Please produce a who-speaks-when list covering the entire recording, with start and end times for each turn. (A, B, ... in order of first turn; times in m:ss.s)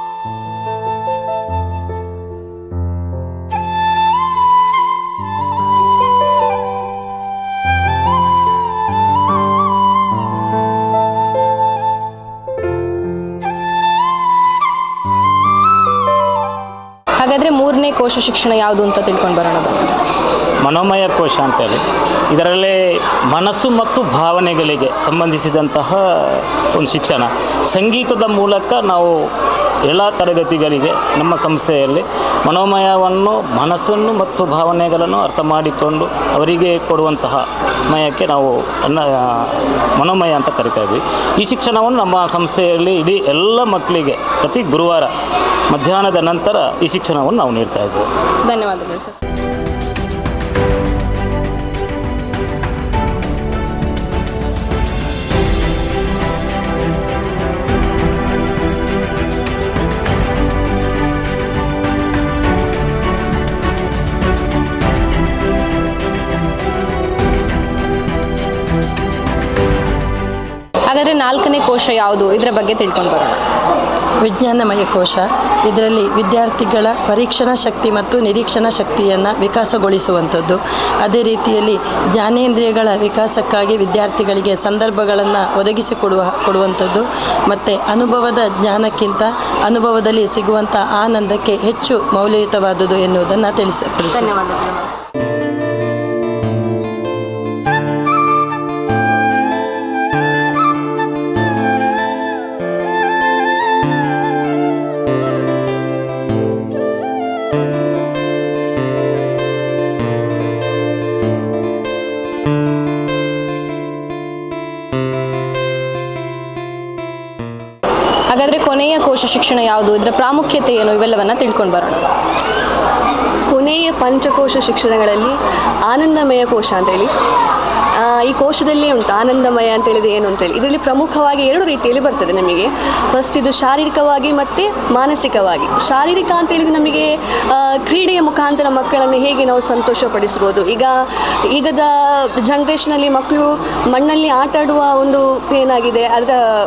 0:17.2-0:19.9 A
0:20.6-0:29.1 B
0:29.9-0:45.1 B
0:45.7-0:48.1 B
0:48.4-0:49.1 A
1:10.9-1:13.4 A
1:14.2-1:34.3 C
1:34.1-1:34.9 A
1:58.3-2:02.0 A
2:03.5-2:05.3 D
2:05.9-2:07.1 D
2:08.2-2:20.9 D
2:21.5-2:21.9 D
2:22.4-2:26.4 D